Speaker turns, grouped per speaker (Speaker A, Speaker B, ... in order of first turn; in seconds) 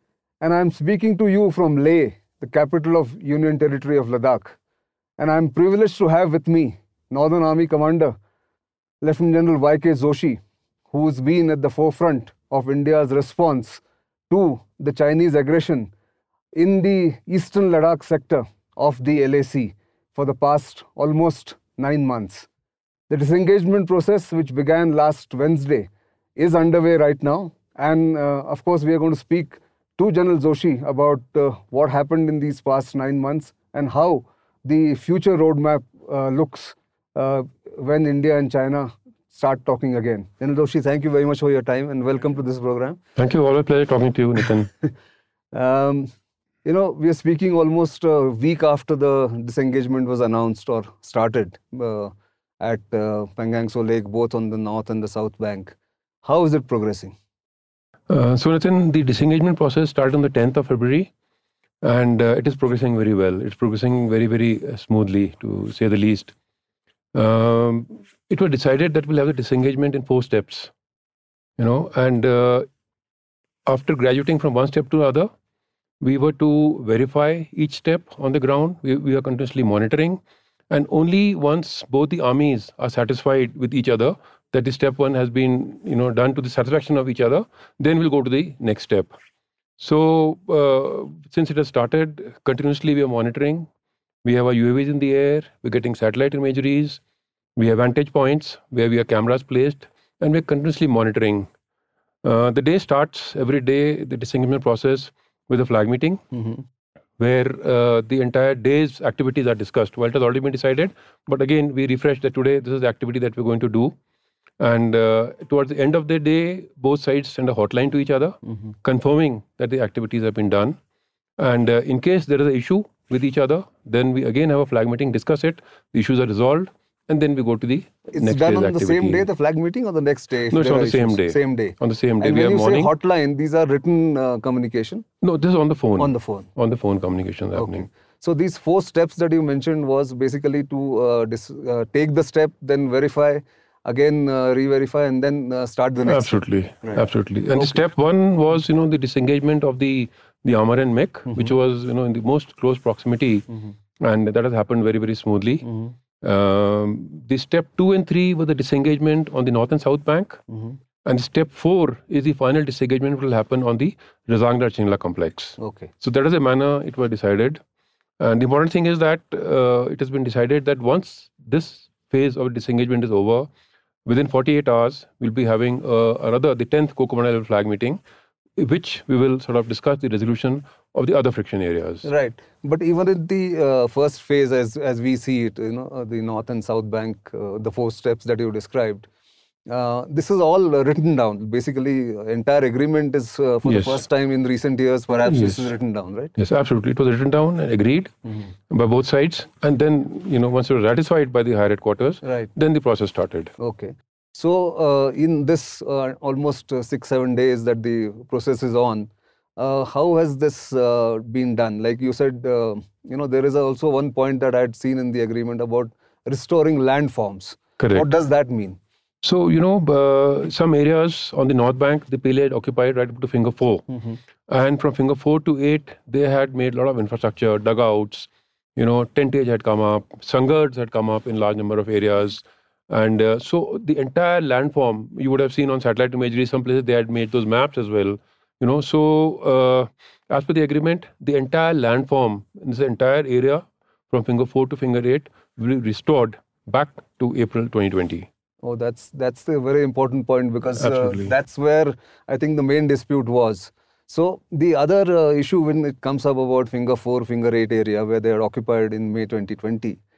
Speaker A: 0.4-4.6, 5.2-8.1, 9.0-10.4, 10.9-15.9, 16.5-22.5, 23.1-43.0, 45.5-46.1, 46.6-57.1, 106.3-106.7, 128.1-135.0, 136.0-136.5, 137.6-147.8, 155.6-155.9, 160.5-160.8, 165.6-165.9, 182.0-189.1, 189.7-196.3, 202.2-202.5, 203.6-218.8, 223.9-224.2, 248.6-260.0
Speaker B: 43.2-44.7, 58.1-61.1, 61.8-66.3, 67.1-70.7, 71.6-72.7, 73.7-75.3, 76.0-89.1, 89.8-93.7, 94.2-97.0, 97.6-101.5, 102.2-106.2, 107.2-113.9, 114.6-120.8, 121.4-129.3, 130.5-132.9, 135.2-137.9, 146.1-153.4, 154.0-155.7, 156.2-160.4, 161.0-167.6, 168.2-173.5, 174.1-178.0, 178.6-182.1, 193.7-194.0, 195.2-195.7, 196.4-198.1, 198.7-203.5, 217.8-218.1, 219.2-223.8, 224.5-248.3, 250.8-251.3